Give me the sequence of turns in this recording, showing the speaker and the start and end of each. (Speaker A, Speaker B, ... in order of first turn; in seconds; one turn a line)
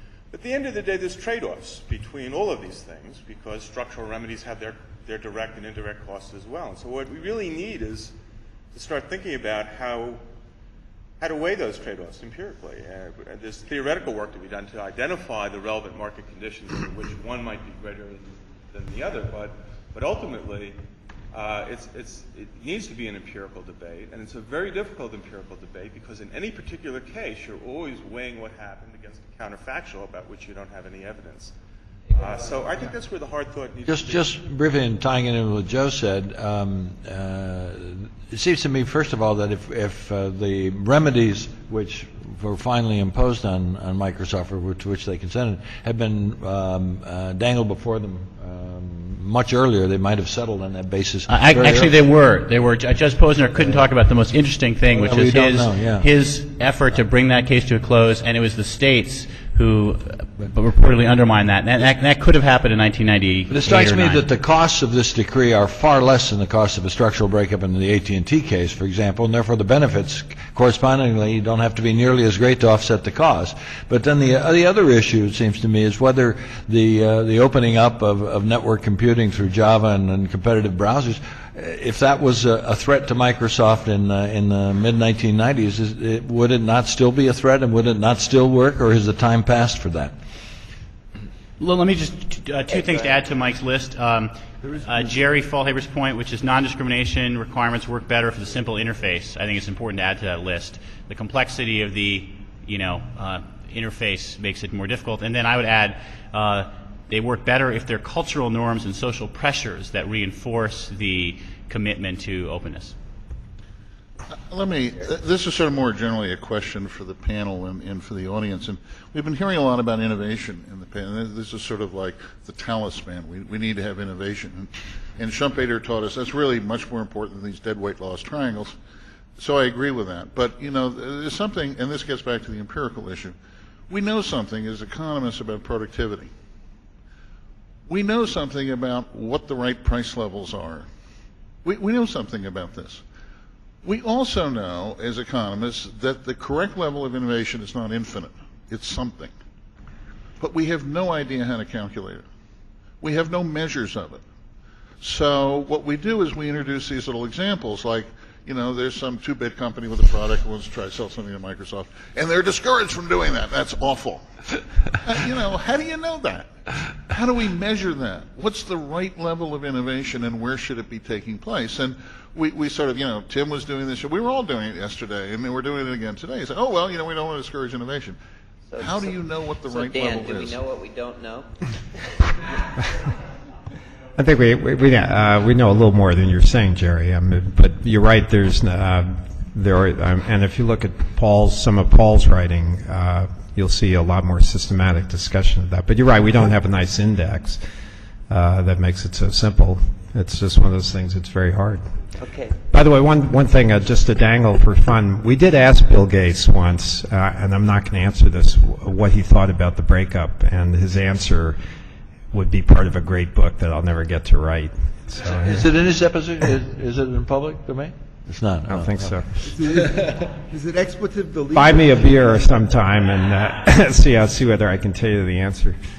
Speaker A: 0.3-8.2
Speaker A: 8.7-10.2
Speaker A: 11.2-20.8
Speaker A: 21.3-31.5
Speaker A: 32.1-34.4
Speaker B: 33.9-51.9
Speaker C: 51.3-64.2
Speaker B: 54.9-56.0
Speaker B: 63.5-90.1
Speaker C: 91.6-112.9
Speaker D: 92.7-93.2
Speaker E: 114.4-128.8
Speaker E: 129.4-133.3
Speaker E: 133.9-136.3
Speaker E: 137.9-140.8
Speaker E: 141.6-143.0
Speaker E: 143.8-149.3
Speaker E: 150.4-152.2
Speaker E: 153.0-154.2
Speaker E: 155.0-164.2
Speaker E: 165.0-166.5
Speaker E: 167.1-178.2
Speaker D: 178.7-181.5
Speaker E: 178.8-180.6
Speaker F: 184.2-197.6
Speaker F: 198.3-201.8
Speaker D: 202.2-202.6
Speaker F: 202.7-211.6
Speaker F: 212.3-215.6
Speaker B: 215.3-219.2
Speaker F: 218.7-219.3
Speaker G: 219.4-222.3
Speaker F: 221.5-225.8